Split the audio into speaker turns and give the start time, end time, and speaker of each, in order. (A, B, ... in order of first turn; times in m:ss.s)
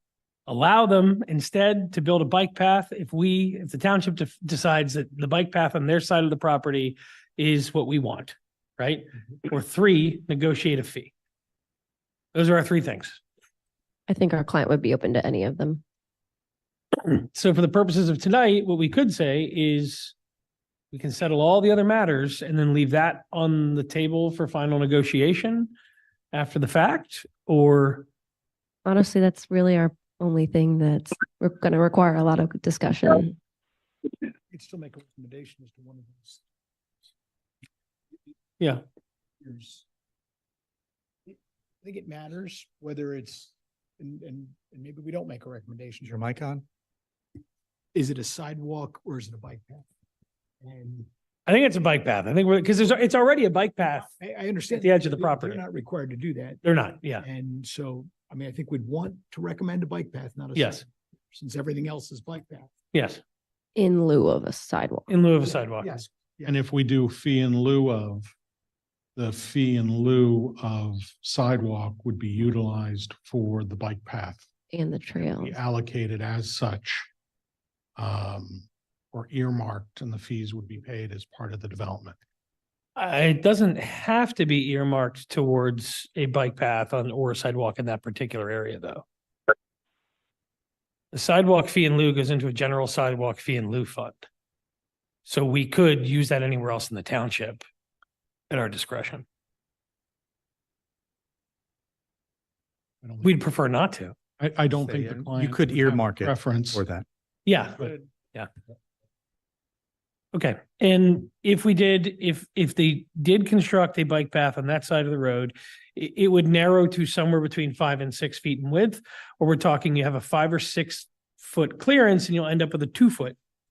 0:00.5-0:11.1 A
0:12.3-0:13.2 A
0:14.1-0:15.8 B
0:17.0-0:20.1 A
0:20.9-0:25.7 A
0:26.3-0:28.1 A
0:28.8-0:33.4 B
0:34.5-0:36.4 C
0:39.4-0:39.8 C
0:41.3-0:46.1 C
0:46.0-0:46.6 D
0:47.9-0:49.9 C
0:50.6-0:51.1 C
0:51.5-0:54.1 A
0:54.2-0:56.6 C
0:54.7-0:55.6 A
0:56.6-0:57.2 A
0:57.2-1:02.7 C
1:00.6-1:00.8 A
1:02.9-1:03.2 A
1:03.8-1:05.1 B
1:05.1-1:05.9 A
1:05.7-1:06.6 C
1:06.4-1:08.3 E
1:09.2-1:14.5 E
1:14.7-1:15.6 B
1:15.2-1:17.1 E
1:18.0-1:22.2 E
1:23.0-1:29.0 A
1:31.1-1:34.3 A
1:35.2-1:37.6 A
1:38.5-1:39.2 A
1:43.0-1:43.4 E
1:43.2-1:44.2 A
1:44.4-1:46.8 E
1:44.7-1:47.0 D
1:47.4-1:48.5 A
1:50.3-2:03.4 A